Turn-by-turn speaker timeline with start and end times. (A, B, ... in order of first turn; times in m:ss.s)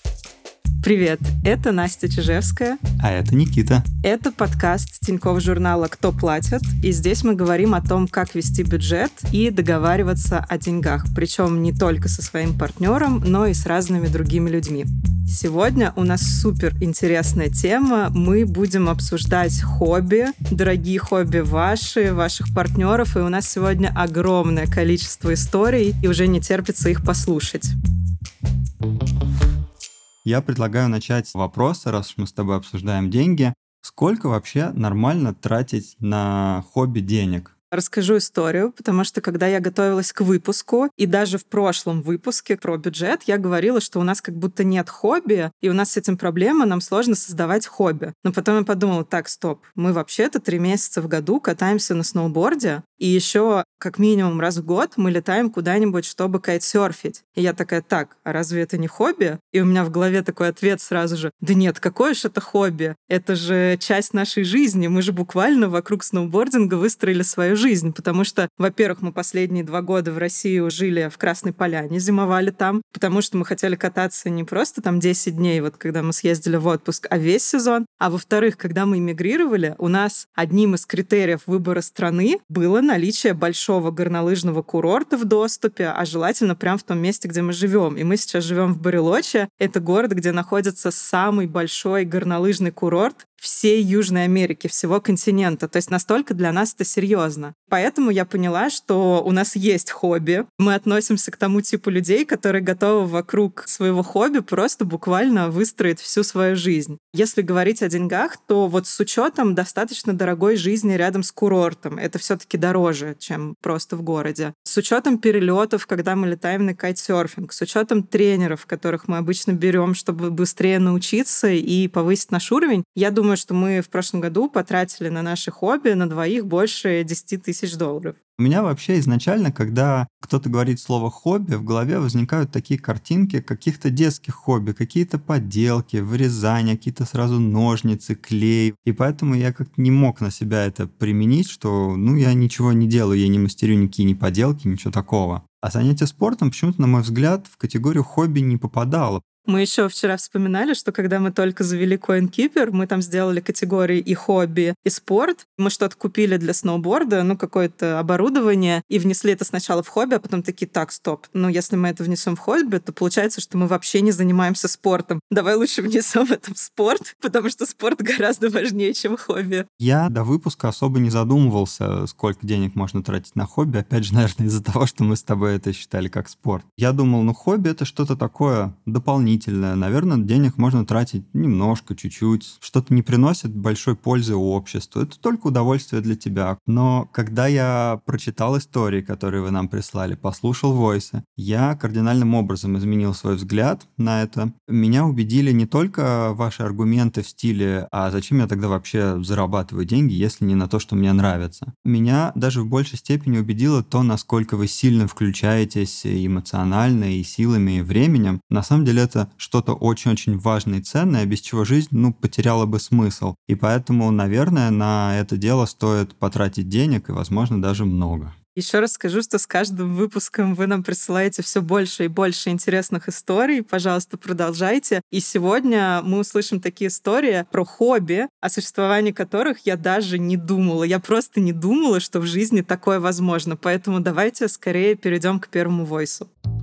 0:00.8-0:02.8 A
0:03.0-0:03.9 B
0:04.0-0:27.7 A
0:30.2-0:37.5 B
0:37.7-2:08.2 A
2:08.4-2:29.2 B
2:29.5-2:49.7 A
2:49.8-3:38.4 B
3:38.6-3:56.3 A